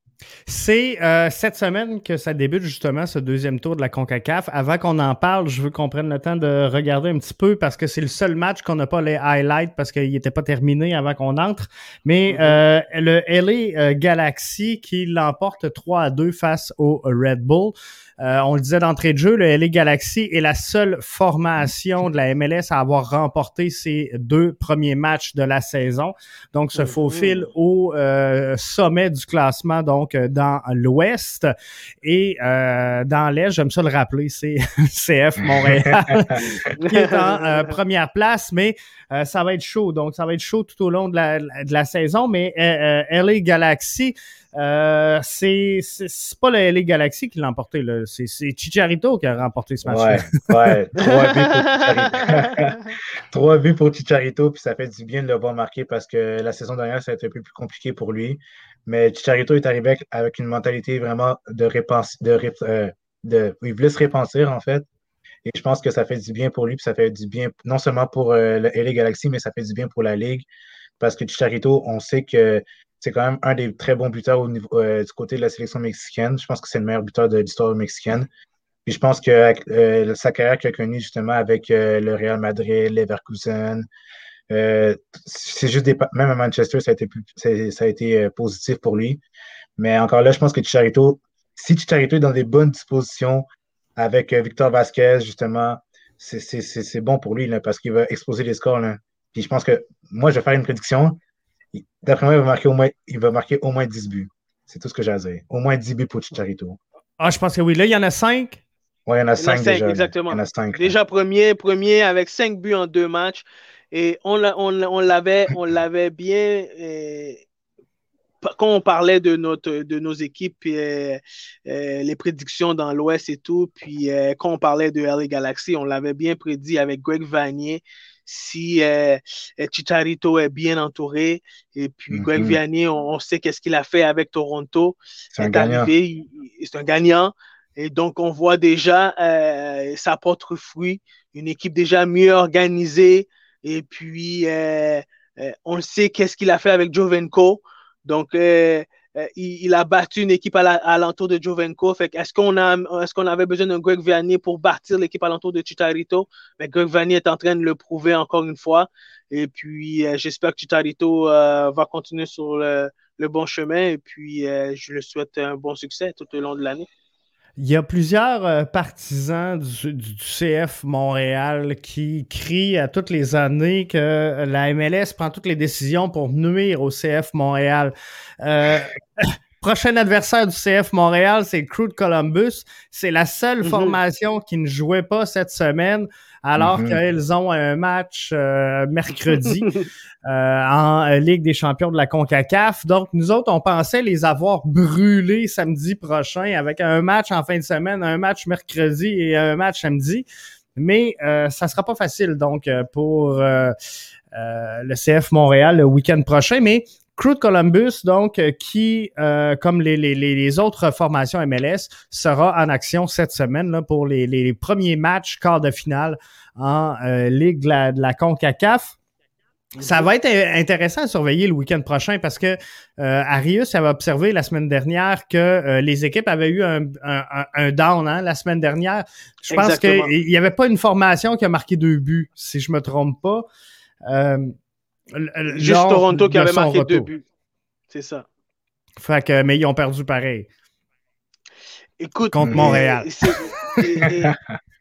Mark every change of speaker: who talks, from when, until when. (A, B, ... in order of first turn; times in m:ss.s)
0:00.5-0:31.5 A
0:12.3-0:12.6 B
0:26.8-0:27.4 B
0:32.0-0:50.5 A
0:35.6-0:36.6 C
0:36.8-0:37.6 B
0:49.9-1:04.9 C
0:51.0-0:52.9 B
1:05.4-1:10.4 C
1:11.0-1:18.3 C
1:18.9-1:23.9 C
1:24.5-1:29.2 C
1:29.8-1:33.4 C
1:34.0-1:41.2 C
1:41.7-1:46.8 C
1:47.2-1:48.6 A
1:49.1-1:51.0 C
1:49.4-1:57.4 B
1:58.4-2:46.9 B
2:12.1-2:12.6 C
2:15.3-2:15.9 C
2:47.6-3:09.7 A
3:03.6-3:04.0 B
3:06.6-3:07.0 C
3:10.3-3:23.7 A
3:24.3-3:39.0 A
3:39.8-3:40.1 B
3:39.8-3:53.4 A
3:49.5-3:50.1 B
3:54.1-3:54.6 A
3:55.1-3:57.1 A
3:55.5-3:57.2 B
3:57.9-3:58.3 B
3:59.0-4:00.5 A
4:02.0-4:04.3 B
4:02.3-4:03.1 A
4:02.4-4:02.8 C
4:04.0-4:04.4 C